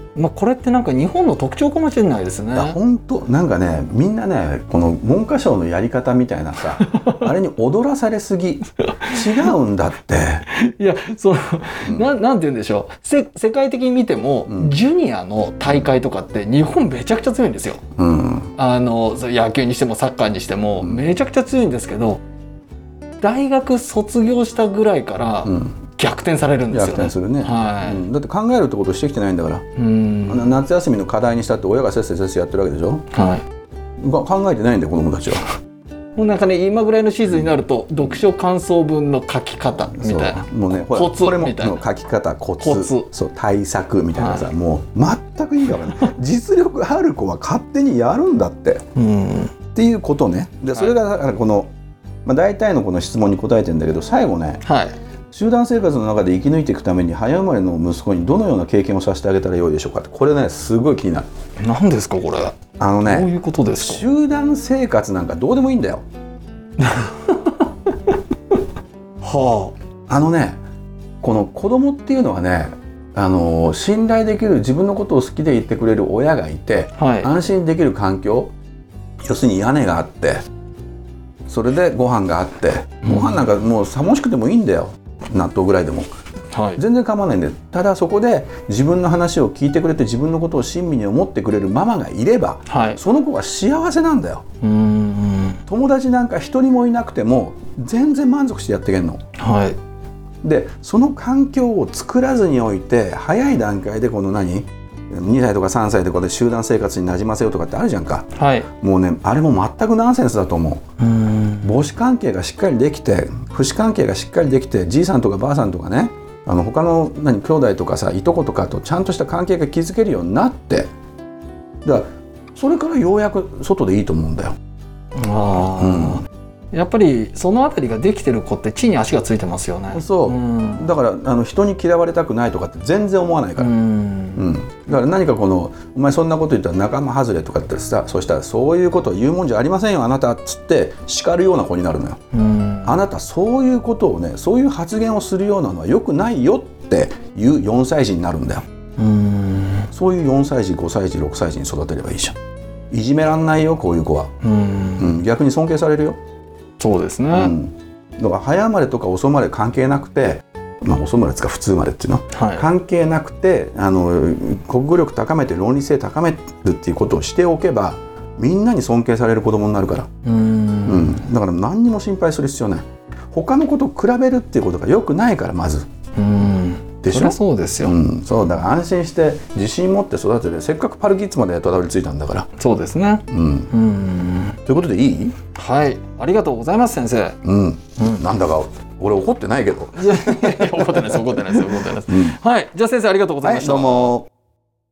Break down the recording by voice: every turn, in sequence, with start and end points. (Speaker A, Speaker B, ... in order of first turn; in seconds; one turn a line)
Speaker A: 0.1-2.8
Speaker B: 2.5-10.5
Speaker A: 6.8-7.2
Speaker A: 8.8-9.5
Speaker A: 10.5-17.8
Speaker B: 11.8-12.1
Speaker B: 14.5-14.8
Speaker B: 18.0-18.5
Speaker A: 18.6-22.2
Speaker A: 23.2-28.0
Speaker B: 25.4-25.8
Speaker B: 26.7-29.7
Speaker A: 29.8-30.6
Speaker B: 30.3-33.1
Speaker A: 33.1-33.4
Speaker B: 34.0-35.5
Speaker A: 36.2-41.8
Speaker B: 39.9-48.9
Speaker A: 42.6-43.1
Speaker A: 44.2-44.5
Speaker A: 49.0-49.5
Speaker B: 49.7-51.7
Speaker B: 52.2-54.6
Speaker A: 54.6-55.0
Speaker B: 55.3-61.3
Speaker A: 61.6-64.1
Speaker B: 62.8-66.0
Speaker A: 66.8-67.6
Speaker A: 69.2-69.7
Speaker B: 70.1-70.6
Speaker B: 71.2-78.5
Speaker A: 77.0-77.3
Speaker B: 79.2-80.5
Speaker B: 81.5-86.1
Speaker A: 83.0-83.4
Speaker A: 86.5-86.8
Speaker B: 86.8-94.5
Speaker A: 92.7-93.0
Speaker A: 94.6-95.6
Speaker B: 95.7-99.2
Speaker A: 99.4-99.8
Speaker B: 100.4-110.8
Speaker A: 108.3-108.7
Speaker A: 111.0-111.7
Speaker B: 111.6-120.9
Speaker B: 121.8-124.6
Speaker A: 125.2-130.9
Speaker B: 125.8-126.2
Speaker B: 129.9-133.7
Speaker A: 133.6-134.5
Speaker B: 134.4-142.2
Speaker A: 142.3-143.0
Speaker B: 142.8-148.7
Speaker A: 149.0-149.9
Speaker B: 149.9-152.4
Speaker B: 152.9-154.3
Speaker A: 154.4-155.2
Speaker B: 155.0-156.2
Speaker A: 156.8-157.5
Speaker B: 157.3-170.1
Speaker A: 162.3-162.7
Speaker A: 170.2-171.2
Speaker B: 170.8-175.9
Speaker A: 176.2-177.9
Speaker B: 177.0-182.5
Speaker A: 182.6-184.6
Speaker B: 183.3-183.7
Speaker B: 184.6-185.4
Speaker A: 185.6-187.4
Speaker B: 187.4-192.4
Speaker A: 190.0-194.2
Speaker B: 193.4-194.3